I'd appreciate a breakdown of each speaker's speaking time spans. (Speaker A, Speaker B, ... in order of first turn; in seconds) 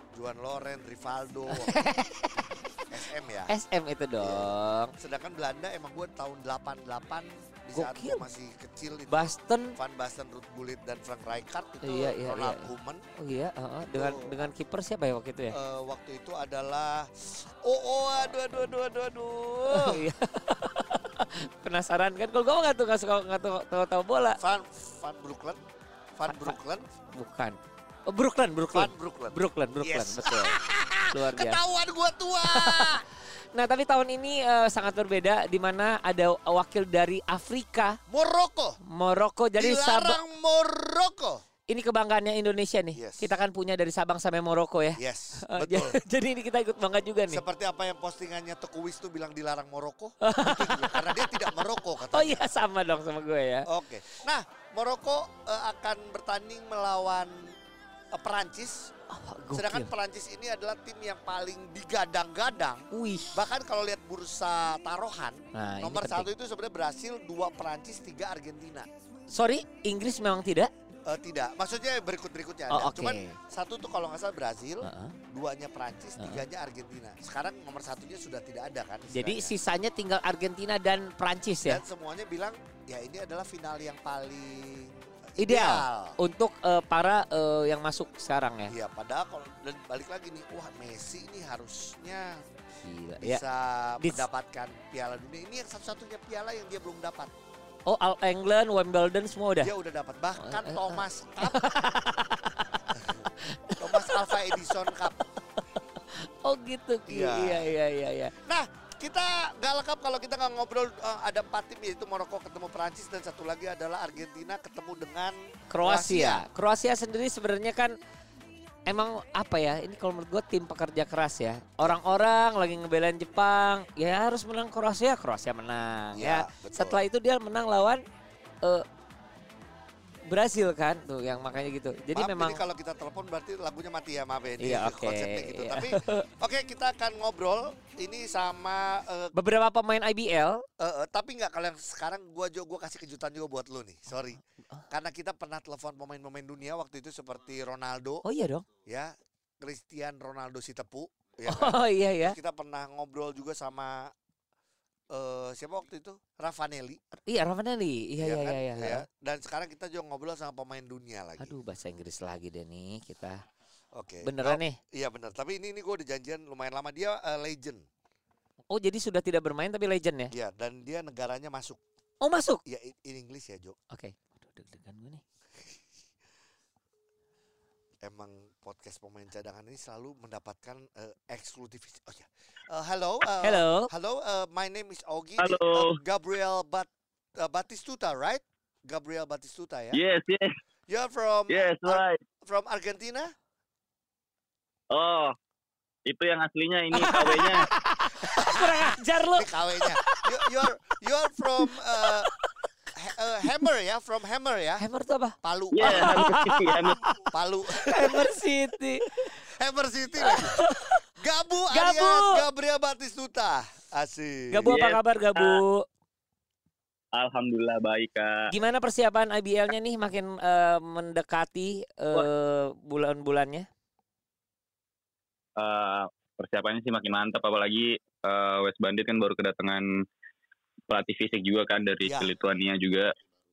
Speaker A: 0.1-1.8, 2.9-3.5, 4.2-13.0, 13.8-14.3, 15.5-20.0, 24.4-25.6, 26.1-26.8, 28.7-33.0, 38.1-38.8, 39.6-41.4, 42.9-43.3, 45.0-46.0, 47.3-52.5, 53.7-57.5, 58.1-58.9, 59.5-62.8, 63.3-68.9, 71.1-79.5, 81.6-86.2, 88.7-92.4, 93.2-97.3, 99.6-101.6, 102.9-105.3, 107.1-107.8, 108.4-116.4, 126.1-127.0, 132.1-139.3, 140.8-148.2, 148.8-154.1, 155.1-157.0, 158.2-161.6, 163.9-167.8, 170.3-171.8, 172.7-173.8, 178.0-190.0, 190.9-193.3, 198.1-202.3, 202.9-204.8, 205.4-206.3, 207.2-208.4, 209.3-210.7, 211.2-214.8, 232.0-232.3
Speaker B: 1.5-2.8, 3.5-4.9, 7.7-8.2, 9.1-9.8, 11.8-15.5, 19.7-24.4, 26.3-26.6, 27.1-30.6, 31.1-31.6, 32.4-38.0, 38.9-40.2, 41.7-47.4, 50.2-51.4, 52.1-53.6, 59.1-59.9, 62.9-63.5, 65.5-66.3, 69.3-70.7, 72.7-73.3, 74.8-75.1, 76.2-76.4, 79.1-81.8, 85.4-88.7, 92.8-93.4, 94.0-94.2, 97.9-99.7, 100.4-102.7, 103.4-104.6, 106.0-108.3, 115.7-118.0, 118.9-128.0, 130.3-132.6, 134.6-136.2, 139.3-140.6, 148.2-148.6, 151.5-152.4, 157.2-159.0, 161.4-163.4, 164.2-164.8, 168.7-170.3, 172.2-172.6, 173.9-175.2, 183.4-183.9, 196.9-200.7, 201.6-202.5, 204.8-207.2, 207.8-209.4, 210.2-211.0, 211.7-212.4, 214.5-215.8, 218.5-223.7
Speaker C: 185.4-186.0, 189.9-190.5, 191.5-192.2, 194.9-195.3, 196.1-197.7, 205.7-207.0, 214.6-215.6, 217.1-218.5, 225.6-229.8, 230.9-233.1